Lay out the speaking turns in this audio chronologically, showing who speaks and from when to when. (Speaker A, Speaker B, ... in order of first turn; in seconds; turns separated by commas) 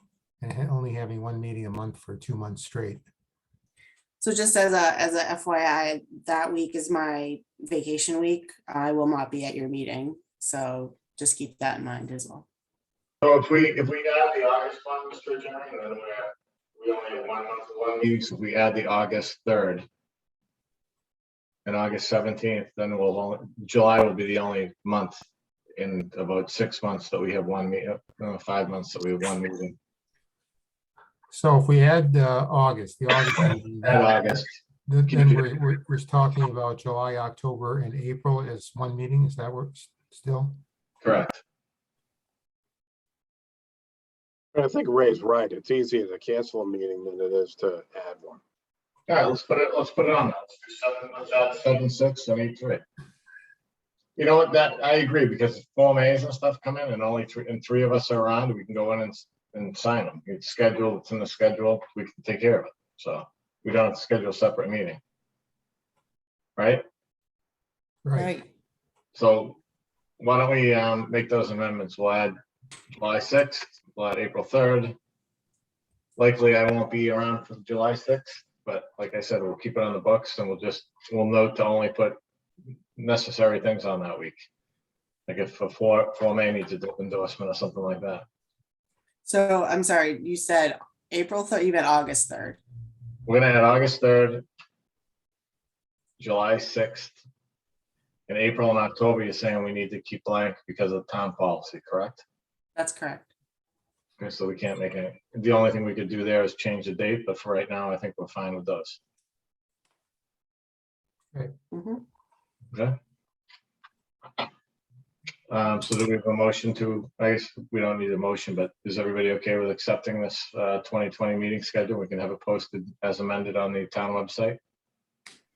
Speaker A: 0.4-3.0, Speaker B: 4.2-12.5, Speaker C: 13.2-19.8, Speaker C: 21.6-25.2, Speaker C: 25.8-29.8, Speaker A: 31.3-33.9, Speaker C: 33.8-34.5, Speaker A: 34.9-37.6, Speaker C: 35.1-35.4, Speaker A: 38.9-39.4, Speaker A: 40.1-40.4, Speaker C: 41.0-41.4, Speaker D: 44.5-48.4, Speaker C: 49.1-52.8, Speaker C: 54.2-65.0, Speaker C: 66.6-66.8, Speaker B: 68.2-68.5, Speaker C: 69.2-69.6, Speaker C: 70.2-72.3, Speaker C: 72.9-74.9, Speaker C: 76.2-82.2, Speaker C: 83.0-84.4, Speaker C: 85.3-88.2, Speaker B: 89.2-92.6, Speaker C: 93.2-94.4, Speaker C: 96.2-97.2, Speaker C: 98.3-102.2, Speaker B: 102.8-103.3, Speaker C: 104.2-109.0, Speaker B: 111.7-112.0, Speaker C: 115.5-124.6